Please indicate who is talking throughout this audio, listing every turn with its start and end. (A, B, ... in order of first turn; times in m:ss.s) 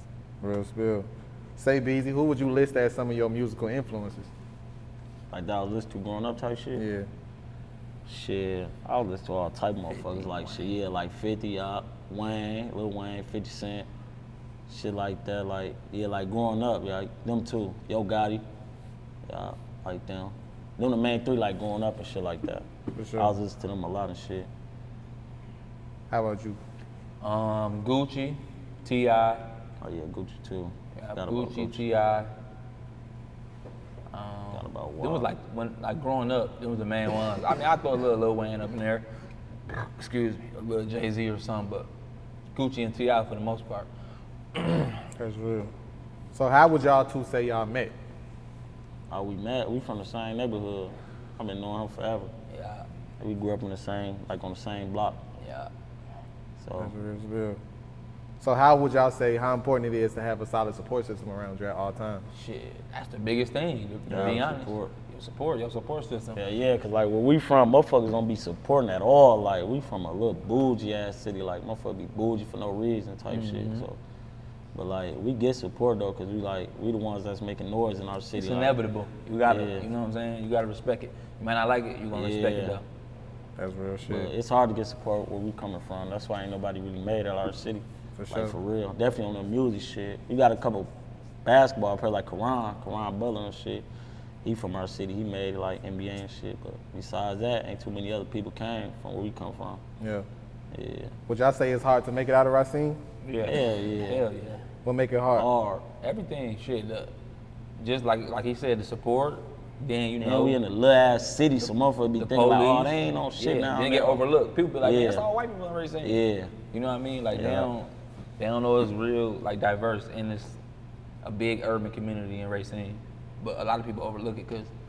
0:00.4-0:04.3 A
0:05.3-0:06.8 B
0:06.8-0:07.1 A
0:08.0-0:13.9 B
0:09.9-0:10.8 C
0:14.7-0:18.4 B
0:19.2-0:24.5 B
0:22.9-0:23.3 A
0:26.1-0:26.6 A
0:27.2-0:29.4 C
0:29.8-0:31.8 B
0:31.0-0:32.3 C
0:34.1-0:39.0 C
0:34.5-0:35.3 B
0:39.7-0:41.9 C
0:42.5-0:43.9 C
0:44.6-0:44.9 C
0:45.2-0:45.7 A
0:46.3-0:47.9 A
0:49.1-0:52.3 B
0:52.5-0:52.8 C
0:53.2-0:55.2 B
0:55.4-0:55.7 C
0:56.6-0:56.9 B
0:56.8-0:57.6 A
0:58.4-1:02.2 A
1:02.3-1:06.4 C
1:04.1-1:04.9 B
1:06.3-1:14.0 B
1:13.3-1:13.8 C
1:14.7-1:18.8 B
1:18.4-1:22.8 C
1:19.4-1:19.9 B
1:22.1-1:22.8 B
1:23.6-1:24.3 A
1:24.0-1:30.9 B
1:28.2-1:28.5 A
1:31.4-1:33.8 B
1:34.4-1:39.8 B
1:40.0-1:40.2 A
1:40.7-1:41.1 B
1:41.3-1:43.0 A
1:43.2-1:44.6 C
1:43.4-1:44.2 B
1:44.8-1:45.5 A
1:45.3-1:45.8 B
1:46.0-1:47.1 C
1:47.8-1:50.6 C
1:50.2-1:54.2 B
1:52.2-2:00.6 C
1:54.8-1:55.2 B
1:56.0-1:56.5 B
1:57.3-1:57.7 B
2:01.2-2:04.7 C